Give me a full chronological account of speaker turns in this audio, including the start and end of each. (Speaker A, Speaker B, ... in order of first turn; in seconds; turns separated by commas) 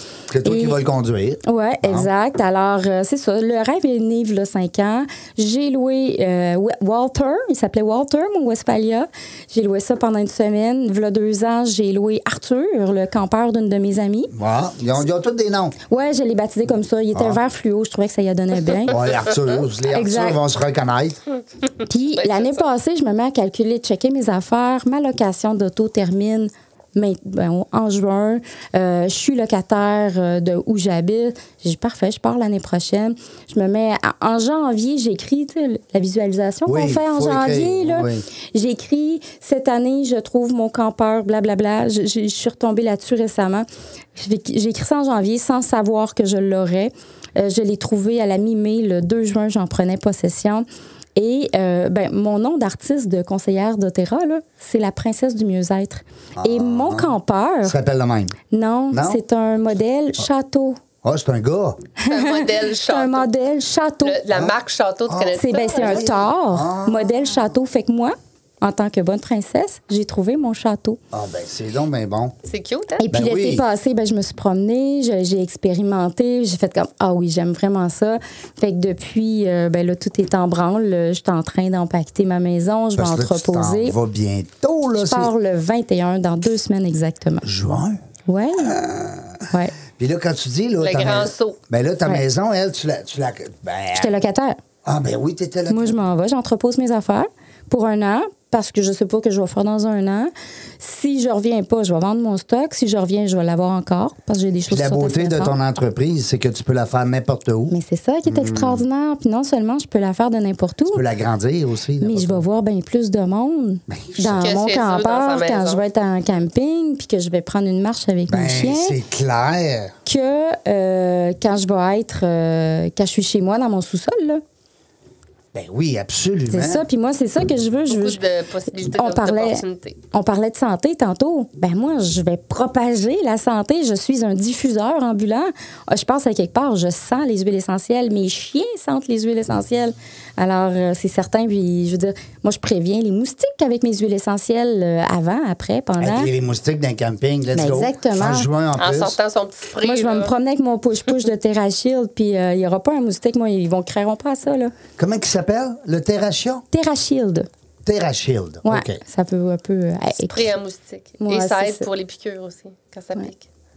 Speaker A: 0.3-2.1, Speaker B: 0.4-0.8, Speaker B: 1.4-14.3, Speaker A: 14.3-15.8, Speaker B: 15.9-19.0, Speaker A: 17.1-17.4, Speaker A: 18.9-21.2, Speaker B: 19.9-20.4, Speaker B: 21.9-50.6, Speaker C: 22.2-22.6, Speaker A: 36.7-38.2, Speaker B: 51.2-57.8, Speaker A: 56.4-58.4, Speaker B: 58.5-60.8, Speaker A: 58.9-59.2, Speaker A: 61.0-61.8, Speaker B: 62.0-64.2, Speaker C: 62.1-63.3, Speaker C: 64.0-66.1, Speaker A: 65.1-67.2, Speaker B: 65.3-71.0, Speaker A: 71.1-72.3, Speaker C: 72.5-73.0, Speaker B: 73.0-84.0, Speaker A: 73.1-73.6, Speaker A: 83.0-85.3, Speaker B: 85.0-87.5, Speaker A: 87.4-88.0, Speaker B: 88.3-88.8, Speaker A: 88.6-89.5, Speaker A: 90.0-94.1, Speaker C: 90.8-91.6, Speaker B: 93.9-94.6, Speaker A: 94.8-96.0, Speaker B: 95.7-105.5, Speaker A: 104.7-107.8, Speaker B: 107.7-111.0, Speaker A: 108.3-108.8, Speaker A: 110.9-112.4, Speaker B: 112.0-119.0, Speaker A: 113.9-114.5, Speaker C: 114.4-115.8, Speaker A: 118.3-119.9, Speaker B: 120.1-124.4, Speaker A: 125.5-126.8, Speaker B: 126.5-128.2, Speaker C: 127.9-130.0, Speaker B: 128.8-146.3, Speaker A: 146.0-149.2, Speaker B: 147.6-148.5, Speaker C: 148.8-150.3, Speaker B: 149.8-154.7, Speaker A: 155.0-156.6, Speaker B: 156.7-157.5, Speaker A: 157.8-159.0, Speaker B: 158.6-160.5, Speaker C: 160.3-163.5, Speaker B: 161.2-161.9